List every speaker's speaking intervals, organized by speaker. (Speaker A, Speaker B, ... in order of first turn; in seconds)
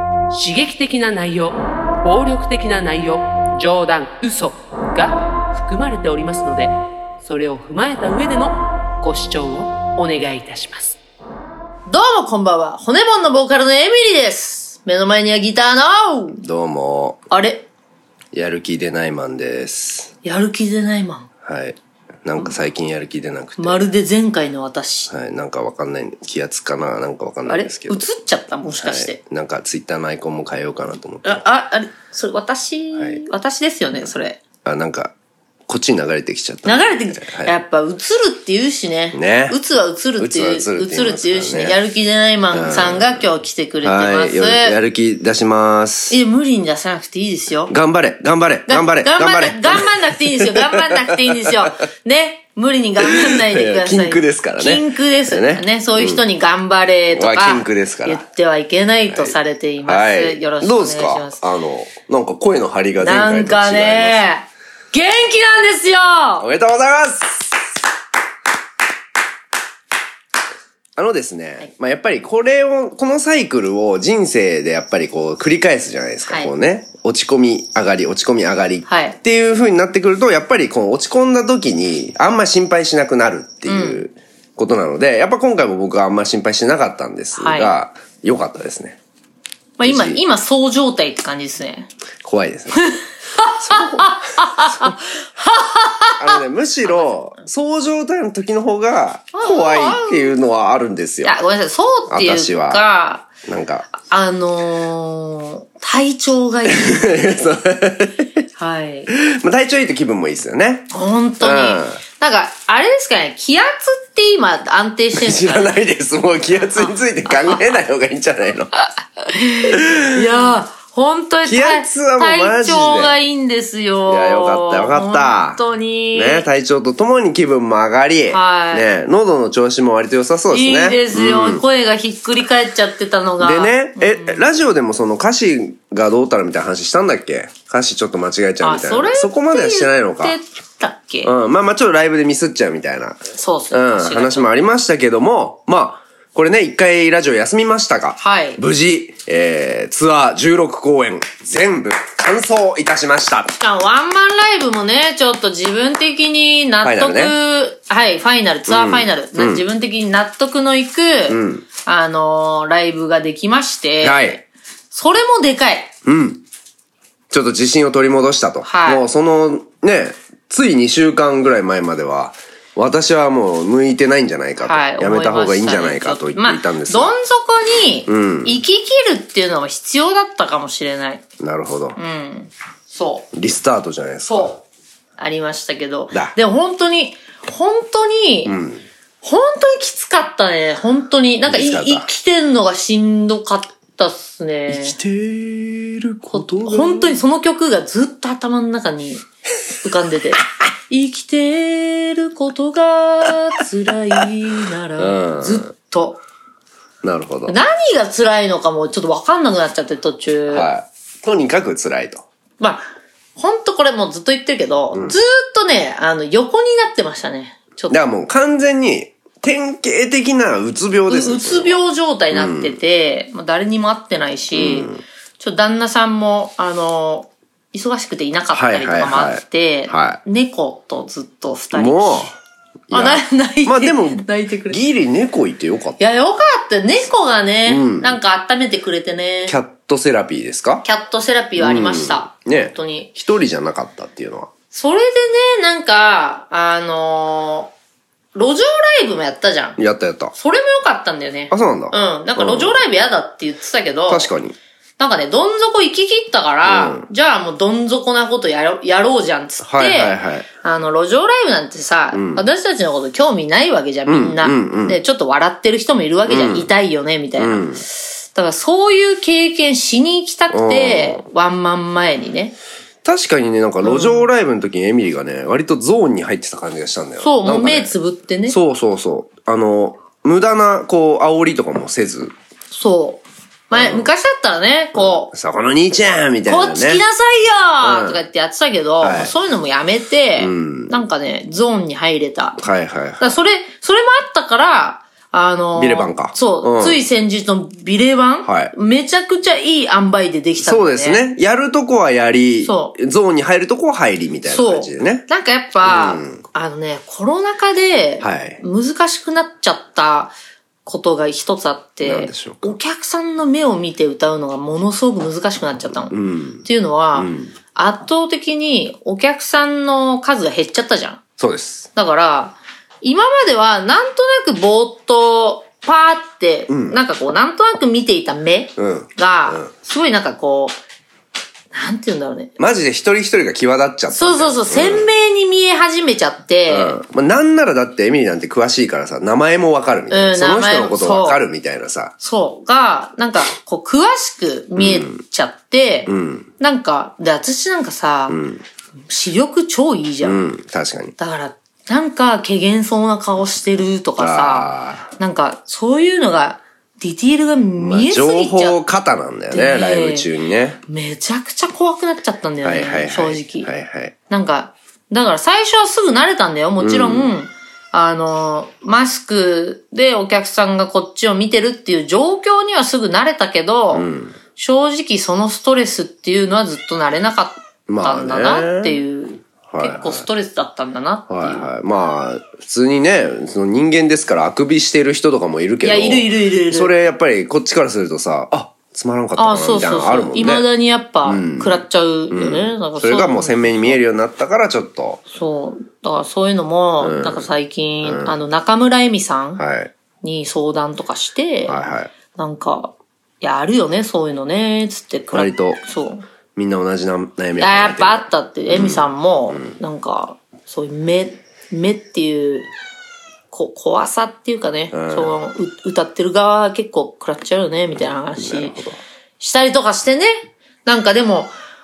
Speaker A: 0.3-11.0
Speaker B: 11.9-16.4, 17.3-17.6, 20.2-21.3, 23.6-25.1, 27.4-29.2, 31.2-34.4, 36.6-44.8, 46.1-47.7, 48.7-61.4, 63.0-66.4, 78.8-79.2, 83.7-84.0, 87.3-87.7, 89.8-91.9, 92.8-97.2, 99.3-100.3, 101.2-103.3, 103.9-107.4, 108.6-109.1, 110.9-115.7, 116.8-117.7, 119.2-126.4, 128.3-128.9, 130.5-134.4, 138.6-141.3, 143.3-144.5, 148.2-148.6, 153.6-165.9, 168.6-169.0, 174.6-181.2, 181.9-183.3, 184.2-184.6, 185.2-188.6, 189.2-195.0, 196.3-199.2, 199.8-206.2, 207.5-210.7, 212.6-218.0, 221.1-232.3, 232.9-234.8, 236.0-239.5, 240.8-243.1, 244.7-247.7, 248.3-249.8, 250.3-254.3, 255.0-272.5, 273.8-274.3, 277.2-278.6, 282.7-285.3, 286.4-292.6, 293.2-301.2, 302.6-302.9, 304.4-310.3, 310.8-321.2, 321.9-330.8, 331.7-332.6, 334.1-337.0, 340.1-341.4, 342.2-348.4, 349.1-350.4, 351.2-358.8, 359.5-360.3, 360.9-363.7, 364.3-381.7, 385.8-386.9, 389.4-394.0, 395.3-399.6, 400.2-401.8, 402.3-406.2, 407.6-412.7, 413.5-418.8, 419.4-421.5
Speaker C: 16.4-17.2, 18.3-20.1, 21.4-23.9, 25.1-28.0, 28.8-31.4, 34.6-35.1, 35.7-37.5, 39.1-39.5, 40.2-41.8, 42.5-43.2, 43.8-46.2, 47.7-51.5, 53.0-56.2, 57.1-58.2, 59.1-64.2, 66.4-67.6, 71.0-89.0, 89.8-90.2, 92.2-92.9, 93.6-94.9, 96.2-101.3, 102.1-102.8, 103.5-103.9, 106.7-108.3, 109.1-110.9, 111.4-112.0, 115.1-118.7, 119.7-120.4, 121.4-123.2, 124.1-125.6, 126.1-131.6, 133.4-140.3, 141.2-153.5, 156.8-157.3, 158.7-159.6, 161.3-161.6, 164.0-164.4, 166.0-166.4, 167.3-177.1, 178.1-178.5, 181.4-182.0, 183.3-184.6, 188.4-188.8, 191.5-192.0, 194.7-197.2, 205.0-205.7, 207.0-207.6, 210.5-212.2, 217.9-221.8, 222.3-222.8, 224.5-225.0, 228.5-230.2, 231.7-232.3, 232.9-236.0, 237.7-238.2, 239.5-240.8, 241.6-244.5, 249.8-250.3, 251.5-252.8, 254.1-254.5, 256.6-257.1, 259.6-260.4, 262.1-262.4, 264.1-265.0, 266.3-266.7, 267.4-267.8, 270.5-271.2, 273.0-277.9, 278.5-282.3, 283.7-284.1, 284.9-287.0, 287.8-288.2, 289.0-289.3, 290.4-290.9, 292.6-293.4, 295.7-297.0, 298.4-298.7, 300.6-305.2, 305.8-306.4, 308.2-308.6, 312.0-312.8, 316.1-317.5, 321.4-321.9, 326.7-327.0, 328.8-329.7, 332.6-335.1, 336.7-342.1, 344.8-345.2, 346.1-346.5, 348.3-348.6, 350.2-351.1, 354.2-355.1, 357.8-360.8, 362.6-364.1, 366.8-367.3, 373.9-374.3, 377.9-379.0, 379.7-380.3, 381.3-390.7, 391.2-395.2, 397.0-397.5, 398.0-398.3, 399.6-399.9, 401.7-402.1, 405.3-405.8, 406.6-409.7, 414.9-415.3, 418.4-419.0